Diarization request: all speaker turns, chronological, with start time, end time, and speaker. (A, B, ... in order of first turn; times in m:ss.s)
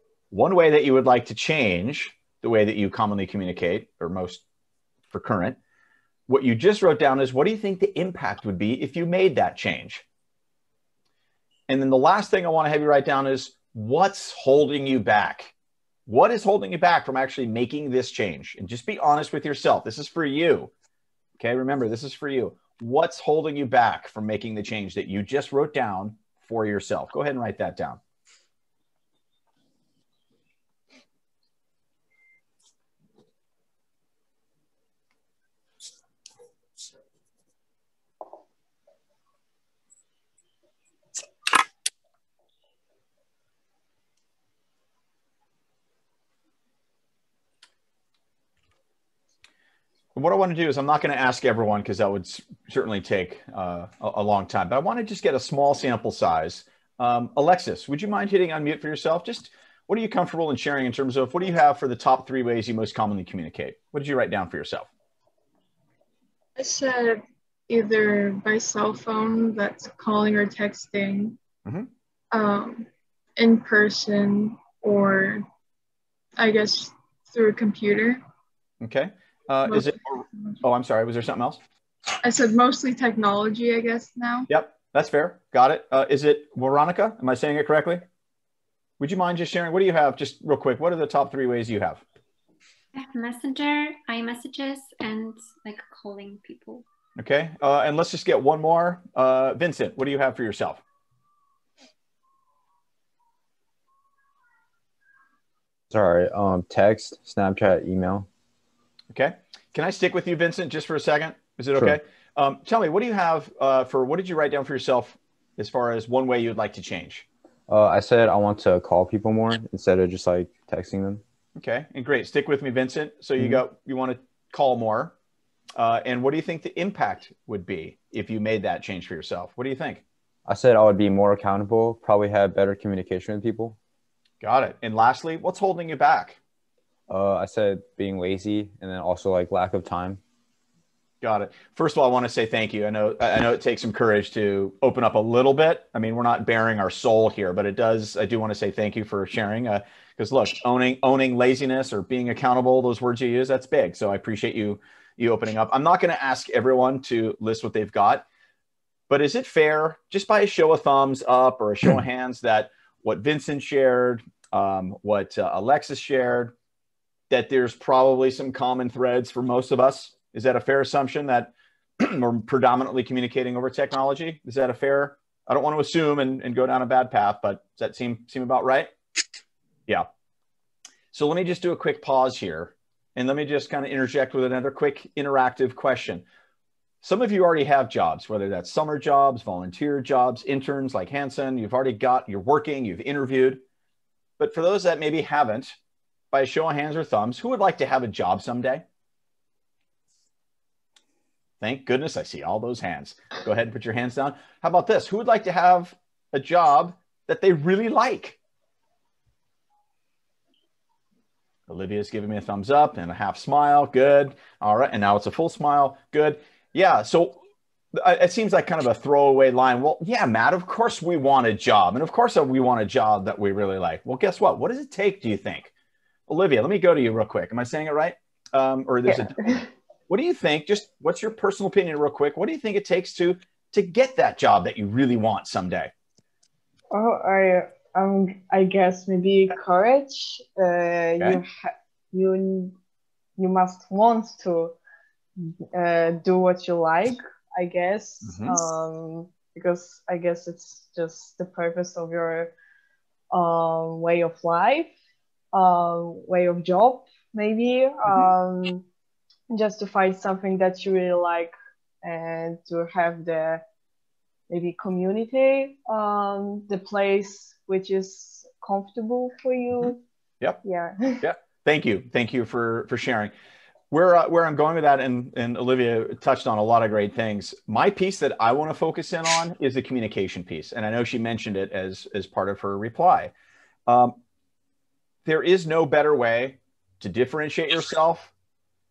0:00.3-0:04.4 A
0:05.1-0:05.6 A
0:06.3-0:10.0 A
0:11.7-0:15.5 A
0:16.1-0:20.7 A
0:21.4-0:28.0 A
0:50.1-1:04.9 A
1:06.6-1:11.4 B
1:12.3-1:15.5 B
1:16.4-1:18.2 B
1:18.8-1:21.6 A
1:19.7-1:20.6 B
1:22.2-1:24.5 B
1:24.5-1:28.0 A
1:29.0-1:32.0 A
1:32.9-1:36.8 C
1:37.2-1:40.8 A
1:45.9-1:48.3 D
1:49.1-1:57.2 A
1:57.7-2:01.2 D
2:01.6-2:05.1 A
2:03.4-2:03.6 D
2:05.8-2:10.0 A
2:10.4-2:13.8 D
2:14.4-2:16.4 A
2:17.1-2:20.2 D
2:21.2-2:38.2 A
2:39.1-2:46.5 A
2:47.3-2:58.9 A
3:01.1-3:06.2 A
3:07.0-3:13.6 A
3:14.4-3:15.7 A
3:16.3-3:18.8 A
3:21.6-3:28.4 A
3:31.7-3:37.4 A
3:37.9-3:45.7 A
3:46.3-3:49.3 A
3:49.1-3:49.6 E
3:50.1-3:55.9 A
3:56.9-4:02.8 E
4:03.4-4:04.8 E
4:05.7-4:12.5 E
4:08.2-4:08.6 A
4:13.3-4:14.9 E
4:15.5-4:18.8 E
4:19.5-4:23.6 E
4:24.5-4:30.0 E
4:30.6-4:31.2 E
4:31.2-4:33.3 A
4:33.9-4:43.3 A
4:43.9-4:44.2 A
4:45.2-4:48.3 A